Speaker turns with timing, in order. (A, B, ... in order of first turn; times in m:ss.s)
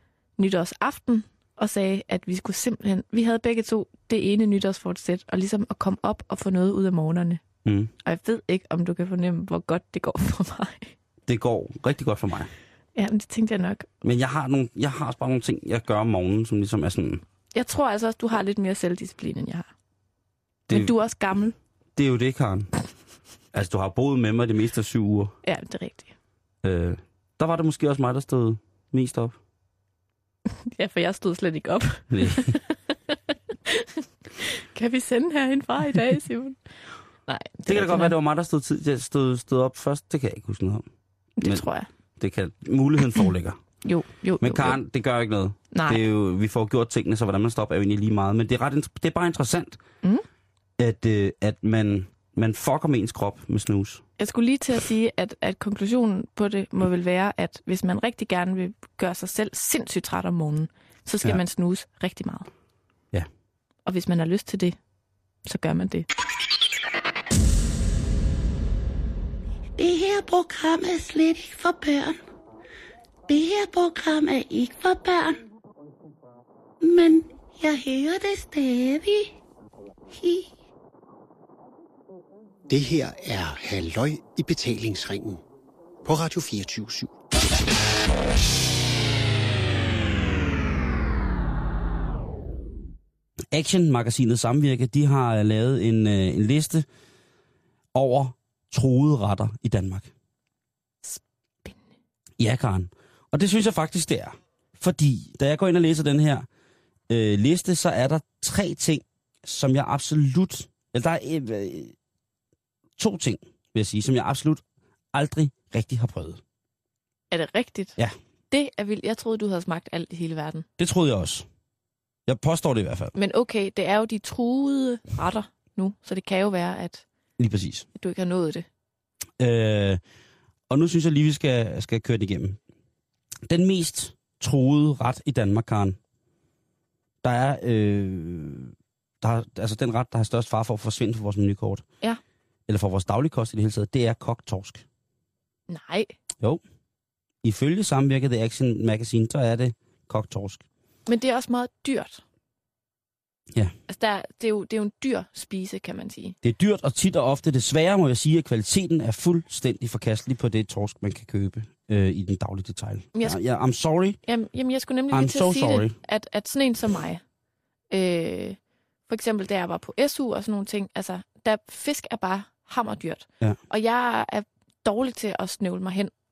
0:00.4-0:07.4 A
0:07.6-0:07.9 B
0:08.0-0:10.9 A
0:11.3-0:12.5 B
0:13.0-0:13.9 A
0:14.0-0:17.2 B
0:17.5-0:19.7 A
0:20.7-0:21.6 A
0:22.0-0:22.7 B
0:23.5-0:25.4 B
0:25.4-0:26.1 A
0:26.6-0:29.4 B
0:30.6-0:36.6 A
0:32.1-0:32.6 B
0:37.3-0:38.1 A
0:37.7-0:40.9 B
0:41.4-0:41.9 A
0:42.2-0:43.6 B
0:43.8-0:44.8 A
0:44.4-0:49.8 B
0:45.7-0:46.0 A
0:50.8-0:54.0 B
0:54.2-1:02.5 A
1:03.9-1:04.8 A
1:05.4-1:06.1 A
1:09.8-1:12.2 C
1:13.3-1:15.4 C
1:16.8-1:19.3 C
1:20.1-1:20.5 C
1:22.7-1:25.4 D
1:26.0-1:27.1 D
1:33.5-1:36.9 B
1:37.9-1:40.1 B
1:41.0-1:41.8 A
1:42.4-1:46.5 B
1:47.1-1:51.9 B
1:53.0-1:54.6 B
1:55.1-1:56.4 B
1:57.3-1:58.0 A
1:58.5-2:00.7 A
2:00.8-2:01.5 B
2:02.3-2:03.1 B
2:03.2-2:07.0 A
2:07.4-2:07.9 B
2:08.0-2:08.7 A
2:09.4-2:10.0 B
2:10.7-2:12.6 B
2:13.5-2:16.0 B
2:17.2-2:21.8 B
2:22.7-2:24.8 B
2:25.7-2:26.1 A
2:27.4-2:30.6 B
2:31.1-2:32.2 A
2:33.9-2:36.4 A
2:36.4-2:44.2 B
2:44.2-2:47.2 A
2:45.1-2:46.0 B
2:47.9-2:48.6 A
2:49.1-2:56.1 A